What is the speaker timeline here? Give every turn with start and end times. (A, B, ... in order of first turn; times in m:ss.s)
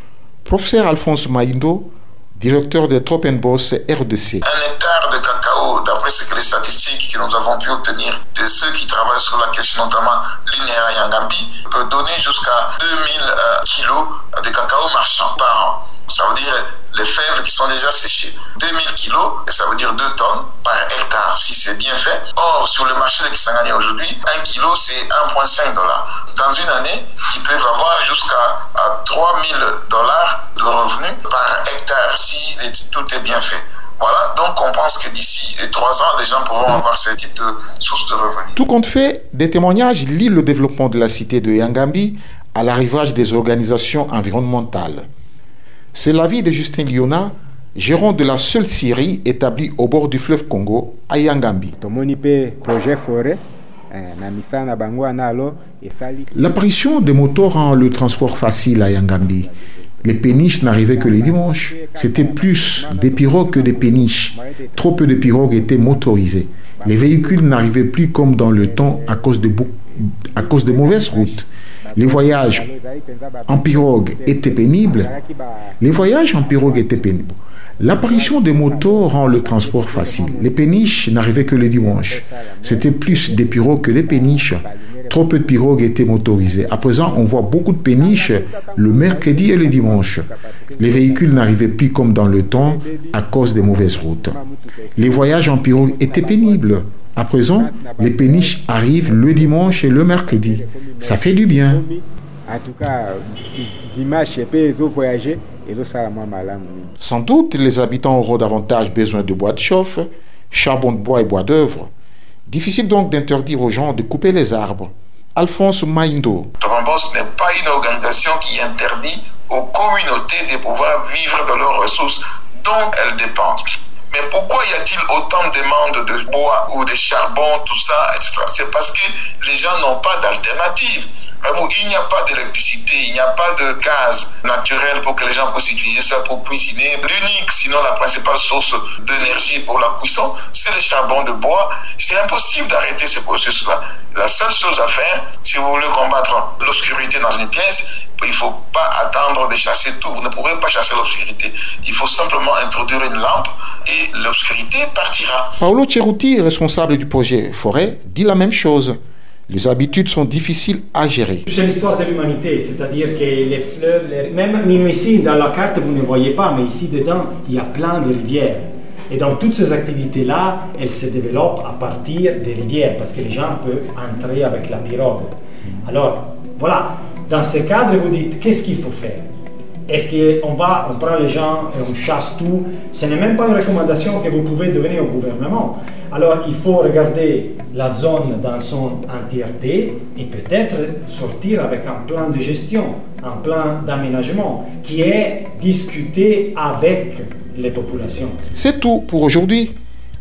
0:00.4-0:04.4 A
0:04.4-0:38.6 B
0:38.6-0:45.1 A
0:45.9-0:51.7 A
0:51.8-0:53.4 C
0:53.9-0:56.3 C
0:56.3-0:59.5 A
1:00.0-1:12.7 A
1:00.8-1:04.7 C
1:06.8-1:07.6 C
1:08.5-1:08.9 C
1:10.4-1:11.3 C
1:11.9-1:15.7 C
1:13.5-1:15.2 A
1:15.8-1:30.3 A
1:16.3-1:17.0 C
1:18.0-1:20.7 C
1:21.7-1:25.4 C
1:28.0-1:31.5 C
1:30.8-1:34.4 A
1:32.6-1:36.6 C
1:35.0-1:41.8 A
1:37.5-1:46.9 C
1:47.0-1:51.9 A
1:52.5-1:56.5 A
1:56.6-2:35.5 B
2:35.6-2:39.0 A
2:39.5-2:41.4 A
2:41.4-2:59.3 D
2:59.9-3:18.4 D
3:18.5-3:19.7 A